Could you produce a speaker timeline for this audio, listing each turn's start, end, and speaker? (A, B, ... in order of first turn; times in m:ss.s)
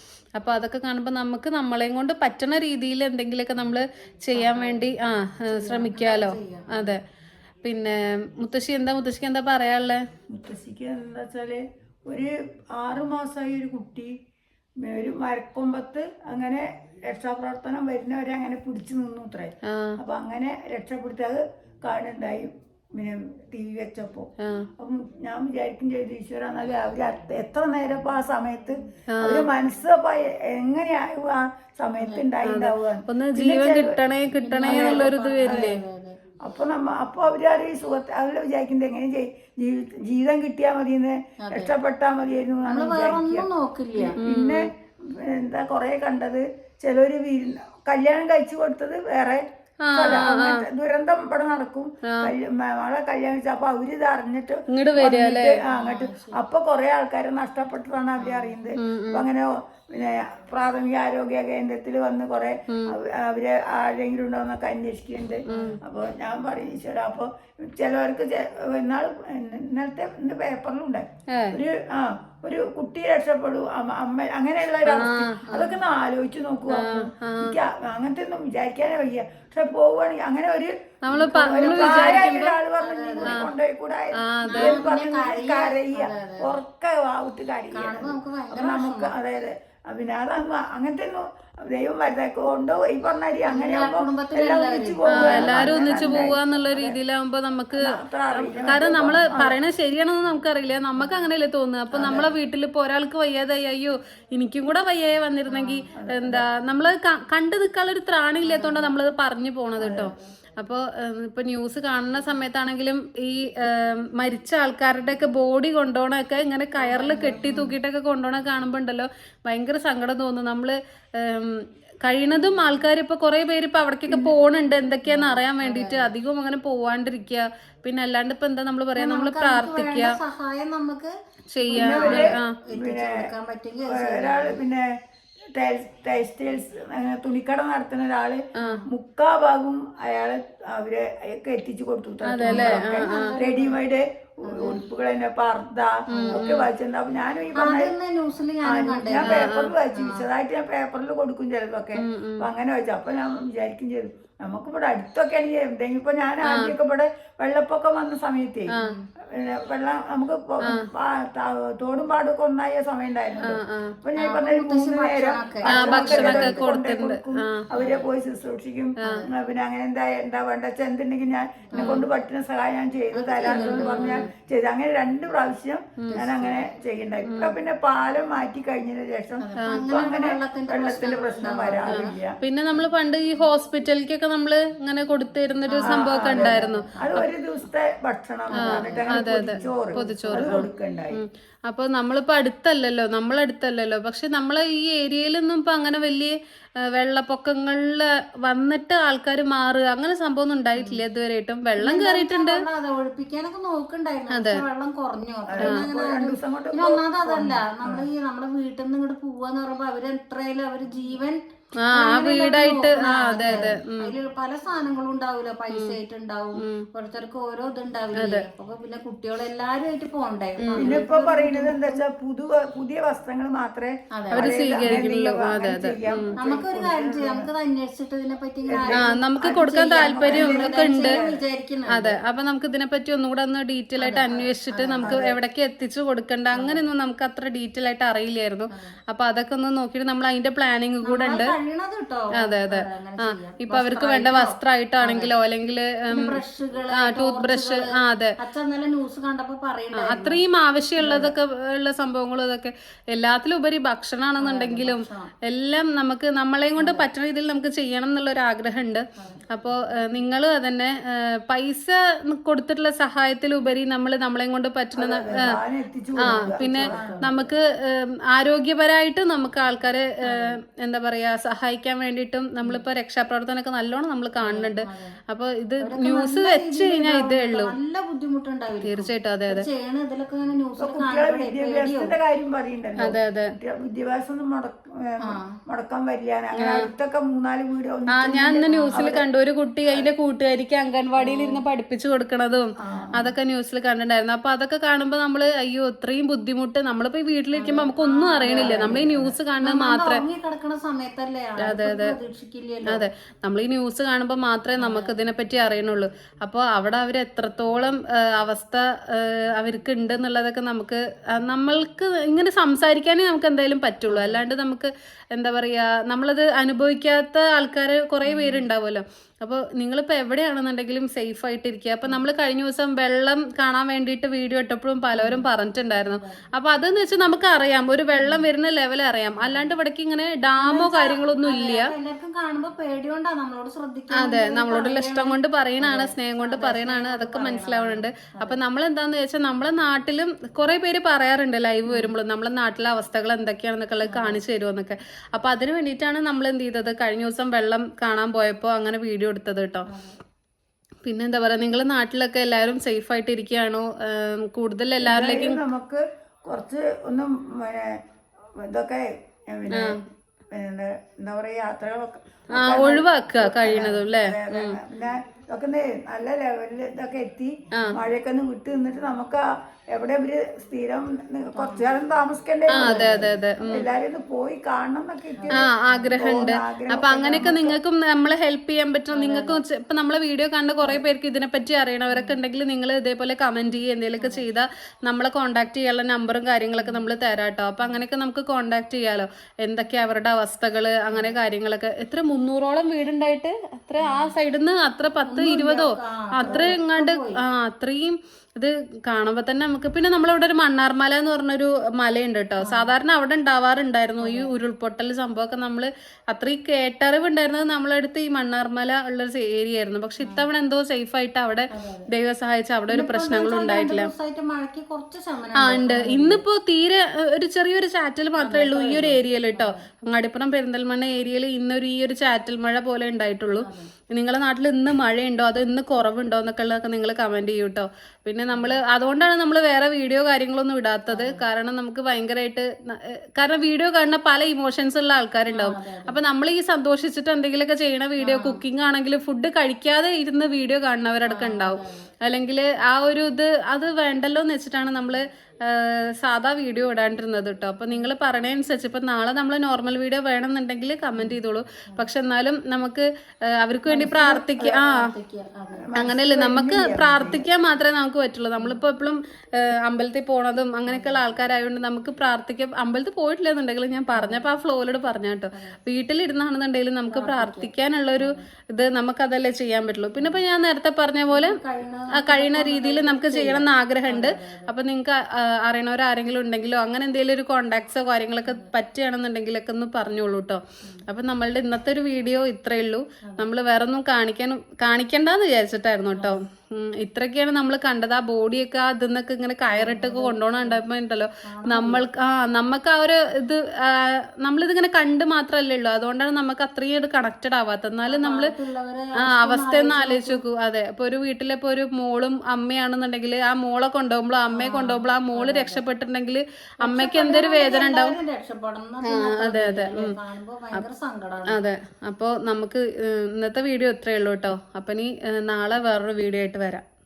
0:00.4-0:07.0 A
0:04.3-0:04.9 B
0:05.5-0:06.9 B
0:07.6-0:10.0 A
0:10.3-0:14.1 C
0:14.8-0:24.3 C
0:19.7-0:20.0 A
0:24.4-0:24.7 A
0:24.8-0:34.0 C
0:29.1-0:29.5 A
0:32.0-0:32.3 B
0:32.4-0:35.8 A
0:34.4-0:36.2 B
0:34.6-0:35.7 C
0:36.4-1:37.0 C
0:41.5-0:41.7 B
0:42.7-0:44.2 B
0:44.2-0:44.6 A
0:49.8-0:50.6 A
0:52.1-0:52.3 A
0:54.7-0:55.6 A
0:55.7-0:56.4 B
0:58.2-0:58.6 B
0:58.8-0:59.2 A
1:05.5-1:05.8 B
1:05.5-1:05.8 A
1:11.3-1:11.6 A
1:14.9-1:15.4 A
1:15.5-1:15.8 B
1:16.7-1:17.6 A
1:21.0-1:22.6 A
1:21.5-1:23.5 B
1:24.2-1:24.8 A
1:24.5-1:26.6 B
1:27.7-1:29.1 B
1:33.5-1:36.1 B
1:35.1-2:10.2 A
1:37.8-1:39.6 C
1:41.9-1:42.3 C
1:45.5-1:45.8 B
1:45.9-1:46.5 C
1:48.4-1:49.0 B
1:49.8-1:50.1 C
1:49.9-1:50.3 B
1:56.8-1:57.8 B
2:04.1-2:04.3 C
2:05.1-2:06.1 B
2:09.0-2:14.6 B
2:11.5-2:12.5 A
2:11.7-2:13.1 C
2:13.9-2:14.8 C
2:15.6-2:27.9 C
2:22.3-2:23.3 A
2:22.4-2:23.8 B
2:24.4-2:24.8 B
2:26.1-2:26.5 B
2:26.1-2:26.6 A
2:27.6-2:30.3 B
2:28.6-2:38.7 C
2:29.2-2:29.7 A
2:32.0-2:32.5 A
2:36.5-2:36.7 A
2:39.4-3:02.4 C
2:43.4-2:44.0 A
2:44.2-2:46.7 B
2:45.7-2:47.6 A
2:47.8-2:48.1 B
2:49.0-2:49.3 B
2:51.7-2:52.0 B
2:51.8-2:52.0 A
2:53.1-2:54.3 B
2:53.5-2:54.3 A
2:56.0-2:56.3 A
2:56.1-2:56.6 B
2:57.2-2:57.6 A
2:59.4-3:02.2 B
3:01.9-3:07.2 A
3:05.7-3:07.1 B
3:05.8-3:11.2 C
3:08.5-3:10.5 B
3:08.6-3:16.3 A
3:17.0-3:22.6 A
3:20.8-3:21.0 B
3:21.8-3:31.4 B
3:24.3-3:24.6 A
3:25.5-3:28.1 C
3:31.8-3:34.1 A
3:31.9-3:42.0 B
3:35.7-3:36.0 A
3:36.6-3:36.8 A
3:38.2-3:38.5 A
3:40.6-3:41.0 A
3:40.8-3:47.5 C
3:44.2-3:44.5 B
3:44.3-3:46.4 A
3:46.4-3:52.2 B
3:48.7-3:51.4 C
3:48.9-3:51.1 A
3:51.9-4:01.6 A
3:54.0-3:55.2 B
3:55.0-3:55.4 C
3:56.5-3:56.8 B
4:01.0-4:05.3 B
4:02.4-4:06.4 A
4:06.1-4:07.8 B
4:06.9-4:08.3 A
4:08.4-4:10.4 B
4:09.9-4:25.5 A
4:11.0-4:11.4 B
4:14.4-4:15.3 B
4:16.8-4:17.1 B
4:19.2-4:20.2 B
4:25.0-4:27.4 C
4:26.2-4:27.4 B
4:26.3-4:37.7 A
4:30.3-4:30.6 B
4:34.4-4:35.2 B
4:35.8-4:42.1 B
4:38.8-4:39.7 A
4:40.8-4:49.2 C
4:43.0-4:43.5 A
4:46.6-4:46.9 A
4:48.1-5:00.2 A
4:48.7-4:49.1 B
4:51.2-4:51.6 B
4:52.8-4:53.3 C
4:57.6-5:03.1 B
4:58.4-4:59.3 C
5:01.6-5:02.2 A
5:02.9-5:31.9 A
5:04.8-5:05.2 B
5:14.1-5:14.4 B
5:18.2-5:18.7 B
5:25.1-5:26.4 B
5:28.1-5:28.5 B
5:29.4-5:29.8 B
5:30.6-5:38.6 B
5:34.1-5:49.9 A
5:41.9-5:42.1 B
5:44.1-5:44.4 B
5:49.9-5:50.2 B
5:51.0-5:55.6 A
5:55.0-5:58.0 C
5:58.6-6:00.0 C
5:59.7-6:00.0 A
6:00.5-6:17.8 C
6:02.6-6:04.8 A
6:11.6-6:11.9 B
6:12.7-6:13.9 A
6:12.8-6:13.4 B
6:15.4-6:16.2 B
6:15.6-6:54.1 A
6:19.1-6:19.6 B
6:22.1-6:22.4 B
6:24.2-6:24.4 B
6:26.8-6:27.1 B
6:31.1-6:31.4 B
6:34.0-6:34.4 B
6:35.3-6:37.4 B
6:36.4-6:36.8 C
6:42.6-6:42.9 B
6:44.2-6:44.5 B
6:51.7-6:52.1 B
6:52.9-6:56.4 B
6:55.6-7:33.0 A
6:58.4-6:59.8 B
7:03.6-7:03.9 B
7:08.5-7:08.8 B
7:11.1-7:11.4 B
7:15.5-7:16.2 B
7:18.2-7:18.6 B
7:21.3-7:22.1 B
7:33.6-7:35.0 A
7:33.9-7:35.9 B
7:34.2-7:34.8 C
7:35.7-7:37.5 C
7:36.0-7:51.6 A
7:40.9-7:41.2 B
7:44.1-7:44.5 B
7:47.1-7:48.4 B
7:50.2-7:50.4 B
7:51.3-7:54.7 B
7:52.2-8:18.5 A
7:58.4-7:58.7 B
8:06.1-8:06.4 B
8:09.7-8:10.8 B
8:11.5-8:12.0 B
8:18.1-8:20.4 B
8:19.2-8:28.2 A
8:24.5-8:25.8 B
8:26.8-8:31.6 B
8:29.0-8:30.2 A
8:31.5-8:36.8 A